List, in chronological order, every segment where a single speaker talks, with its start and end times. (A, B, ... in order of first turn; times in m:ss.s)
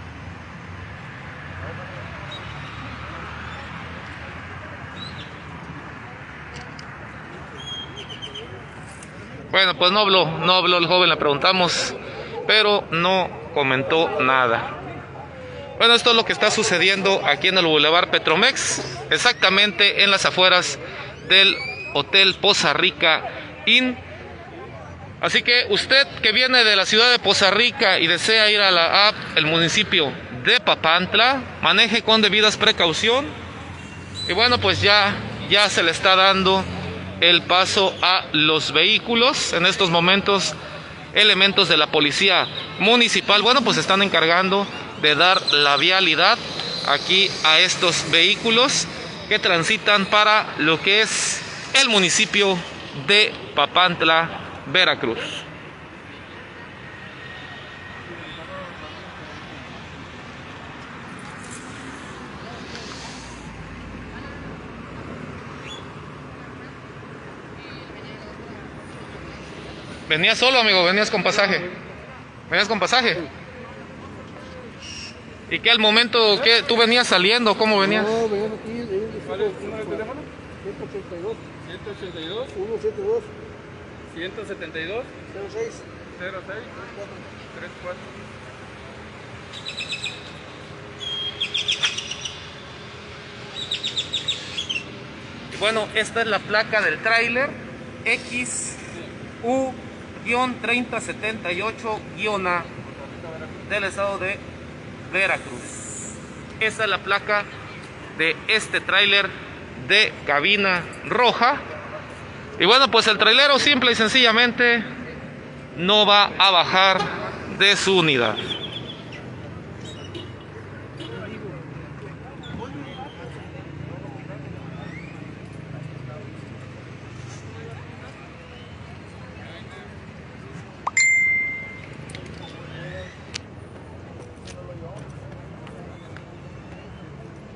0:09.5-0:14.7 A
0:15.8-0:24.0 A
0:25.2-0:33.3 A
0:34.3-0:36.7 A
0:37.2-0:40.5 A
0:41.1-0:55.4 A
1:10.1-1:11.7 A
1:12.5-1:13.2 A
1:15.5-1:18.2 A
1:18.0-1:19.9 B
1:19.2-1:20.2 C
1:20.6-1:21.4 B
1:21.6-1:22.6 C
1:22.6-1:23.3 B
1:24.1-1:25.1 C
1:25.4-1:25.8 B
1:26.2-1:26.9 C
1:27.6-1:27.9 C
1:35.5-1:38.8 A
1:39.4-1:42.7 A
1:43.6-1:44.4 A
1:45.1-1:45.8 A
1:46.6-1:47.5 A
1:48.1-1:51.6 A
1:52.6-1:54.8 A
1:55.7-1:58.4 A